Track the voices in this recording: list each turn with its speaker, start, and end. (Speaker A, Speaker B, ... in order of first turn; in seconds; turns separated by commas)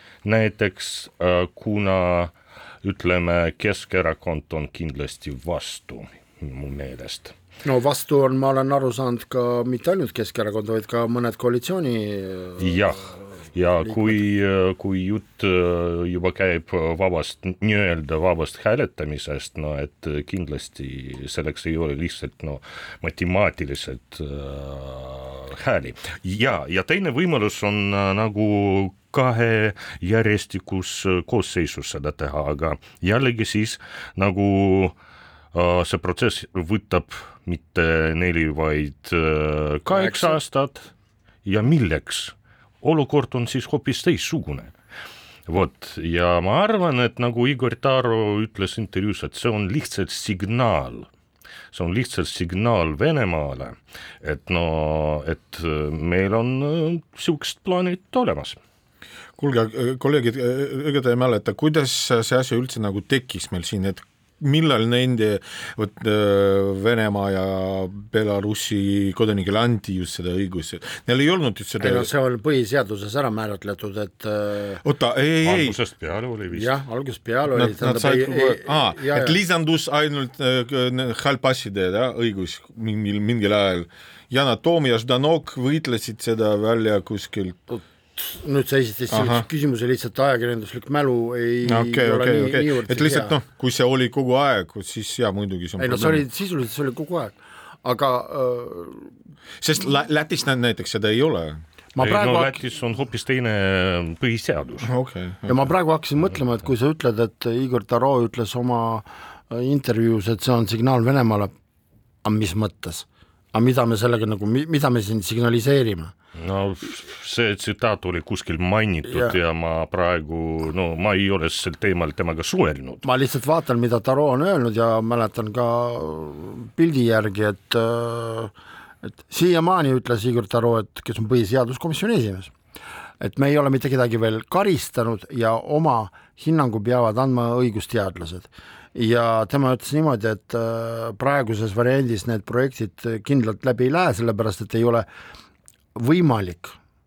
Speaker A: 0.2-7.3, Speaker B: 7.6-12.8, Speaker A: 12.6-35.0, Speaker B: 13.9-14.1, Speaker A: 35.5-40.9, Speaker B: 39.9-40.4, Speaker A: 41.5-44.7, Speaker A: 45.5-51.1, Speaker A: 51.7-58.6, Speaker C: 59.4-72.1, Speaker B: 71.8-74.8, Speaker C: 74.8-75.8, Speaker A: 75.4-76.8, Speaker B: 76.5-79.4, Speaker C: 77.5-87.7, Speaker B: 87.7-93.3, Speaker C: 89.1-89.5, Speaker C: 91.7-96.2, Speaker B: 95.8-99.1, Speaker C: 99.6-101.6, Speaker B: 101.9-102.6, Speaker A: 102.0-104.9, Speaker C: 104.8-105.7, Speaker B: 105.5-111.5, Speaker B: 112.2-116.1, Speaker A: 116.4-123.0, Speaker B: 119.1-119.4, Speaker B: 123.0-128.5, Speaker B: 129.2-132.5, Speaker B: 133.2-145.1, Speaker B: 145.9-146.8